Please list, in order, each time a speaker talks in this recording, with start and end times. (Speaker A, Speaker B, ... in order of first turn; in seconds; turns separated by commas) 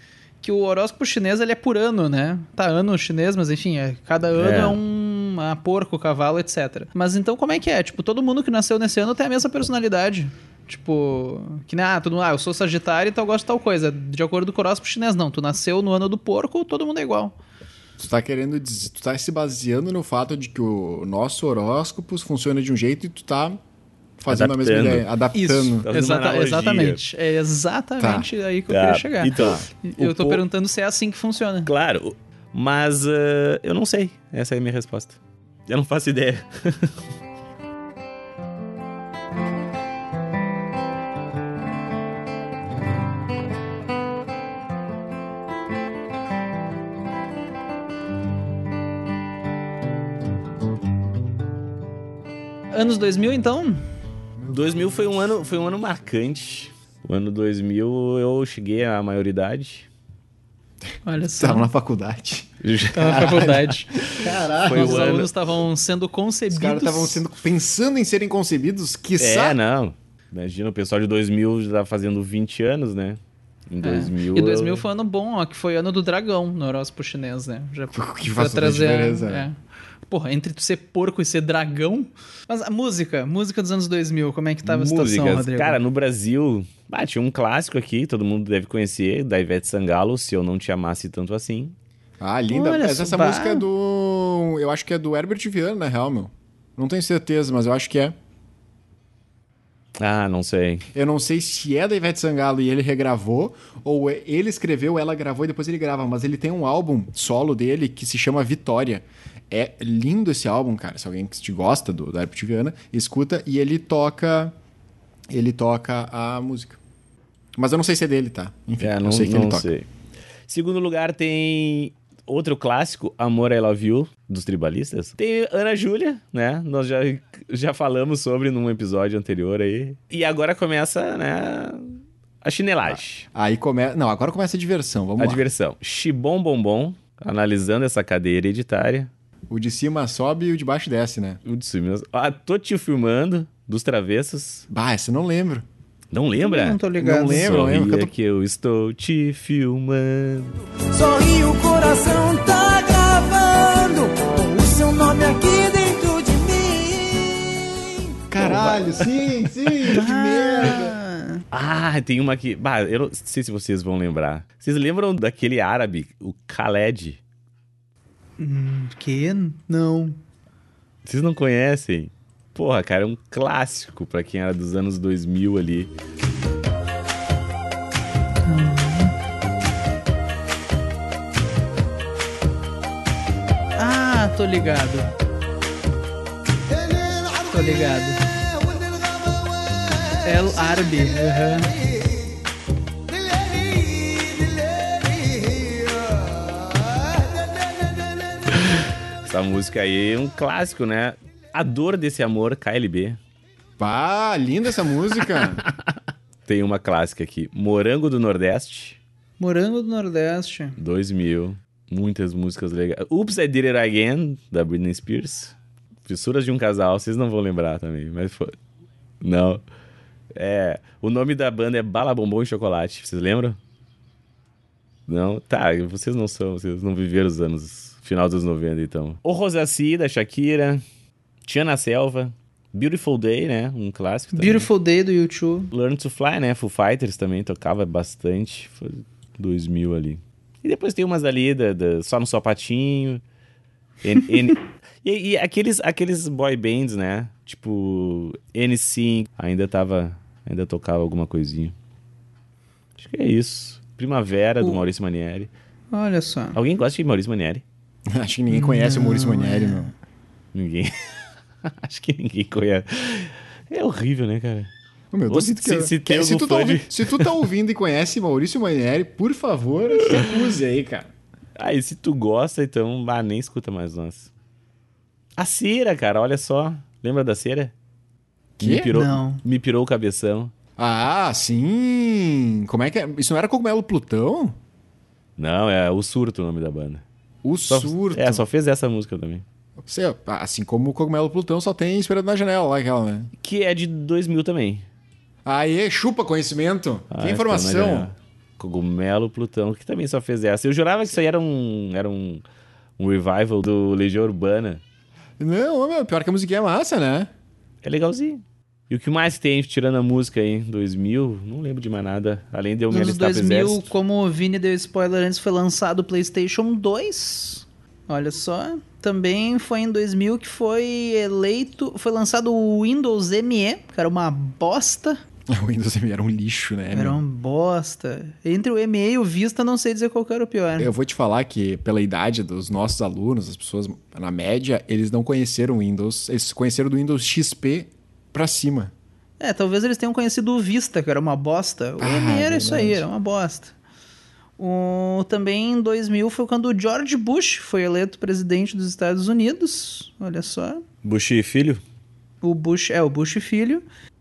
Speaker A: 0.4-17.4, Speaker B: 4.4-4.8, Speaker C: 18.0-23.6, Speaker C: 24.2-25.8, Speaker B: 24.3-25.1, Speaker A: 25.3-31.7, Speaker B: 25.8-27.0, Speaker C: 28.0-28.3, Speaker B: 28.7-30.4, Speaker B: 31.6-37.0, Speaker A: 52.7-53.8, Speaker B: 54.5-59.9, Speaker A: 61.0-61.7, Speaker C: 61.4-65.2, Speaker B: 62.6-63.5, Speaker A: 62.9-67.2, Speaker B: 64.6-65.3, Speaker C: 66.5-69.6, Speaker B: 69.2-73.2, Speaker B: 73.7-74.8, Speaker A: 73.8-79.5, Speaker C: 77.9-79.5, Speaker A: 80.1-85.8, Speaker B: 84.6-91.7, Speaker C: 92.2-98.2, Speaker A: 92.5-93.7, Speaker B: 100.0-100.8, Speaker C: 100.9-114.5, Speaker C: 115.3-116.8, Speaker C: 117.6-119.7, Speaker B: 118.8-119.9, Speaker B: 120.5-133.3, Speaker C: 132.9-135.4, Speaker B: 135.2-139.1, Speaker C: 139.5-141.4, Speaker B: 141.4-144.6, Speaker C: 144.7-145.7, Speaker B: 146.1-150.6, Speaker A: 146.4-147.4, Speaker C: 147.0-148.1, Speaker D: 150.9-158.2, Speaker C: 158.3-160.9, Speaker A: 159.9-161.4, Speaker B: 161.5-167.2, Speaker A: 168.4-170.2, Speaker B: 171.1-175.9, Speaker A: 178.4-179.1, Speaker A: 183.8-185.1, Speaker D: 187.0-187.4, Speaker A: 187.5-188.3, Speaker D: 188.5-190.0, Speaker A: 190.2-191.8, Speaker D: 193.2-196.3, Speaker D: 197.0-197.6, Speaker B: 198.6-203.2, Speaker C: 203.8-205.6, Speaker B: 205.4-205.7, Speaker B: 206.5-209.0, Speaker A: 209.4-210.8, Speaker B: 210.8-218.5, Speaker B: 219.2-219.6, Speaker B: 220.3-223.6, Speaker B: 225.1-230.8, Speaker B: 231.4-234.7, Speaker A: 234.3-235.7, Speaker B: 235.7-243.2, Speaker B: 244.0-251.7, Speaker B: 253.0-255.5, Speaker A: 255.9-256.6, Speaker B: 256.6-257.6, Speaker C: 258.1-259.9, Speaker A: 258.5-259.9, Speaker B: 260.5-264.7, Speaker C: 265.1-271.1, Speaker B: 265.3-267.4, Speaker B: 271.6-274.3, Speaker B: 275.4-277.7, Speaker C: 278.6-278.9, Speaker B: 278.6-280.5, Speaker A: 278.9-279.4, Speaker C: 280.8-284.6, Speaker B: 285.4-287.0, Speaker C: 287.4-288.4, Speaker B: 287.7-289.4, Speaker C: 289.8-293.3, Speaker B: 293.4-294.8, Speaker C: 295.4-298.1, Speaker B: 297.1-302.4, Speaker B: 303.0-304.8, Speaker C: 305.4-307.3, Speaker B: 307.8-313.9, Speaker A: 312.9-325.2, Speaker C: 325.5-327.2, Speaker A: 326.9-330.9, Speaker C: 330.8-338.9, Speaker A: 339.4-343.7, Speaker C: 342.0-343.1, Speaker A: 344.6-350.8, Speaker B: 351.0-351.8, Speaker A: 352.4-353.8